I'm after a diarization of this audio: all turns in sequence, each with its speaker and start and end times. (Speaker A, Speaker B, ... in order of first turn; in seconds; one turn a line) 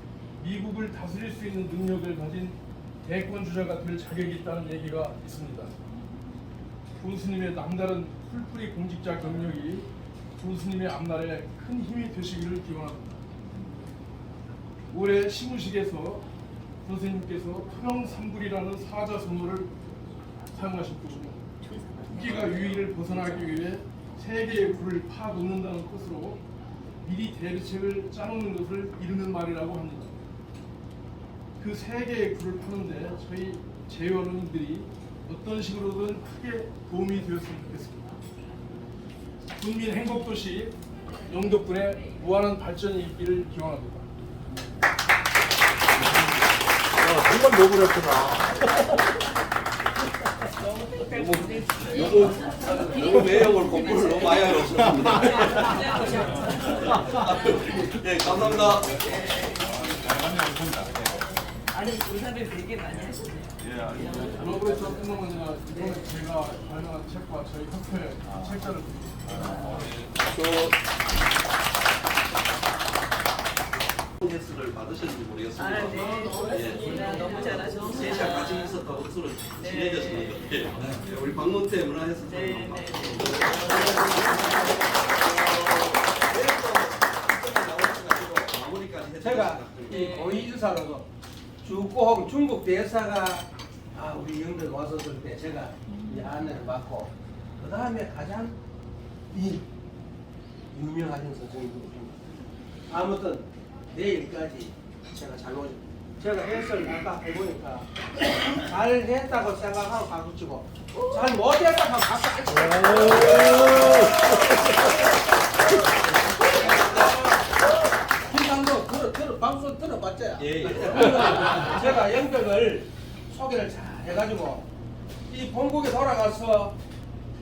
Speaker A: 0.4-5.8
Speaker A: 7.0-13.2
Speaker A: 14.9-16.3
Speaker A: 16.8-19.8
Speaker A: 20.5-21.4
Speaker B: 21.6-22.7
Speaker A: 22.1-26.4
Speaker A: 27.0-30.2
Speaker A: 31.6-38.1
Speaker A: 39.6-44.1
Speaker C: 47.0-48.5
Speaker B: 50.7-53.2
Speaker D: 51.0-59.1
Speaker B: 53.7-54.4
Speaker B: 55.2-56.7
Speaker C: 56.1-57.2
Speaker C: 58.2-61.3
Speaker B: 59.2-59.7
Speaker B: 61.7-64.4
Speaker C: 62.9-64.8
Speaker A: 64.3-69.8
Speaker C: 68.3-68.5
Speaker C: 69.2-70.1
Speaker D: 70.2-70.8
Speaker D: 74.2-90.1
Speaker B: 75.6-78.8
Speaker E: 76.7-77.6
Speaker B: 79.6-80.5
Speaker B: 82.2-84.5
Speaker E: 83.7-84.8
Speaker E: 89.2-91.1
Speaker B: 90.0-90.4
Speaker E: 91.6-98.6
Speaker E: 99.3-99.7
Speaker E: 100.7-102.2
Speaker E: 102.9-114.7
Speaker E: 116.4-117.5
Speaker E: 118.2-124.7
Speaker D: 120.4-121.8
Speaker E: 125.3-126.8